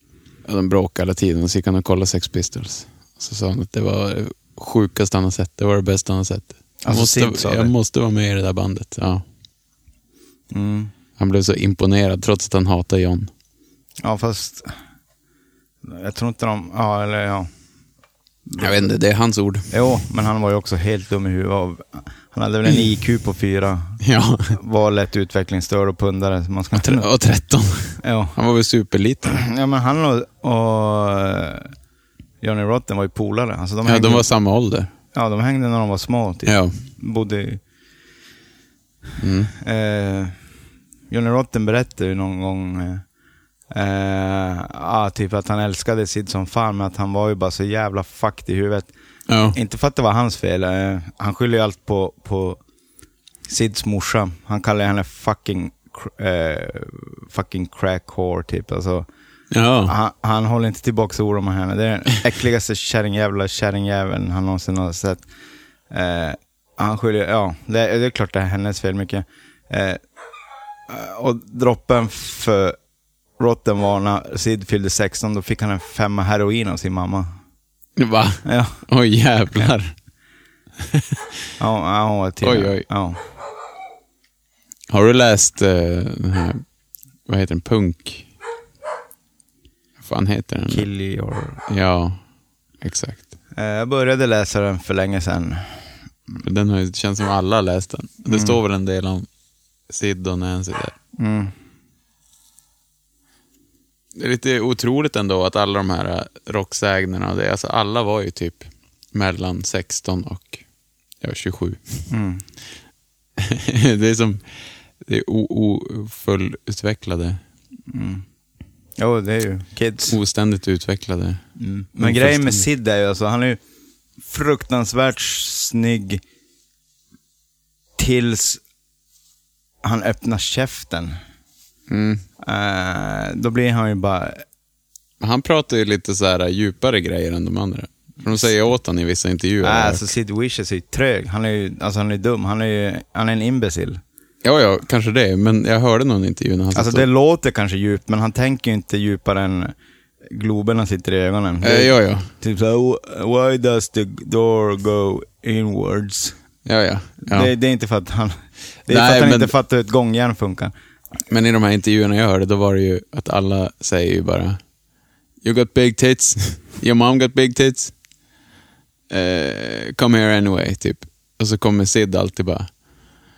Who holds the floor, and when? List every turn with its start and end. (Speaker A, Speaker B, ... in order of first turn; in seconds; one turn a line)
Speaker A: 0.5-9.2
Speaker B: 6.8-7.7
Speaker B: 10.5-10.9
Speaker A: 11.2-13.3
Speaker B: 14.0-14.7
Speaker B: 15.8-17.5
Speaker B: 18.5-18.8
Speaker A: 18.6-19.7
Speaker B: 19.7-24.0
Speaker A: 24.0-24.6
Speaker B: 24.6-27.1
Speaker A: 26.7-29.4
Speaker B: 28.0-28.4
Speaker B: 29.3-31.7
Speaker B: 32.4-34.3
Speaker A: 33.9-34.9
Speaker B: 35.1-37.6
Speaker A: 36.5-36.8
Speaker A: 39.2-39.5
Speaker B: 39.5-40.4
Speaker B: 41.1-43.0
Speaker B: 43.7-48.9
Speaker A: 49.3-49.6
Speaker B: 49.5-52.6
Speaker B: 53.5-59.1
Speaker A: 59.5-59.9
Speaker B: 59.9-65.2
Speaker B: 65.9-70.0
Speaker B: 70.9-72.8
Speaker B: 73.4-77.3
Speaker A: 78.0-80.0
Speaker B: 78.5-78.8
Speaker B: 81.6-83.2
Speaker A: 82.4-82.9
Speaker A: 84.9-86.6
Speaker A: 87.3-88.3
Speaker A: 90.0-90.9
Speaker B: 90.7-91.6
Speaker A: 91.7-92.2
Speaker A: 92.8-93.3
Speaker B: 93.5-96.3
Speaker A: 96.4-99.3
Speaker B: 98.3-98.6
Speaker A: 99.9-101.0
Speaker B: 101.2-101.5
Speaker A: 104.2-110.6
Speaker A: 111.2-112.1
Speaker B: 112.1-112.4
Speaker A: 113.4-117.4
Speaker B: 117.9-118.2
Speaker B: 119.0-120.2
Speaker A: 120.1-121.4
Speaker B: 121.6-123.6
Speaker A: 122.0-122.7
Speaker B: 124.2-126.2
Speaker B: 128.0-128.6
Speaker B: 129.8-131.2
Speaker A: 131.9-132.2
Speaker B: 132.4-134.4
Speaker A: 135.2-140.1
Speaker B: 138.3-138.5
Speaker B: 139.6-144.0
Speaker A: 144.4-147.1
Speaker B: 146.7-156.4
Speaker A: 151.6-152.3
Speaker A: 156.7-157.5
Speaker B: 157.3-160.7
Speaker A: 158.9-159.5
Speaker A: 161.3-164.6
Speaker A: 165.4-167.9
Speaker A: 169.1-172.7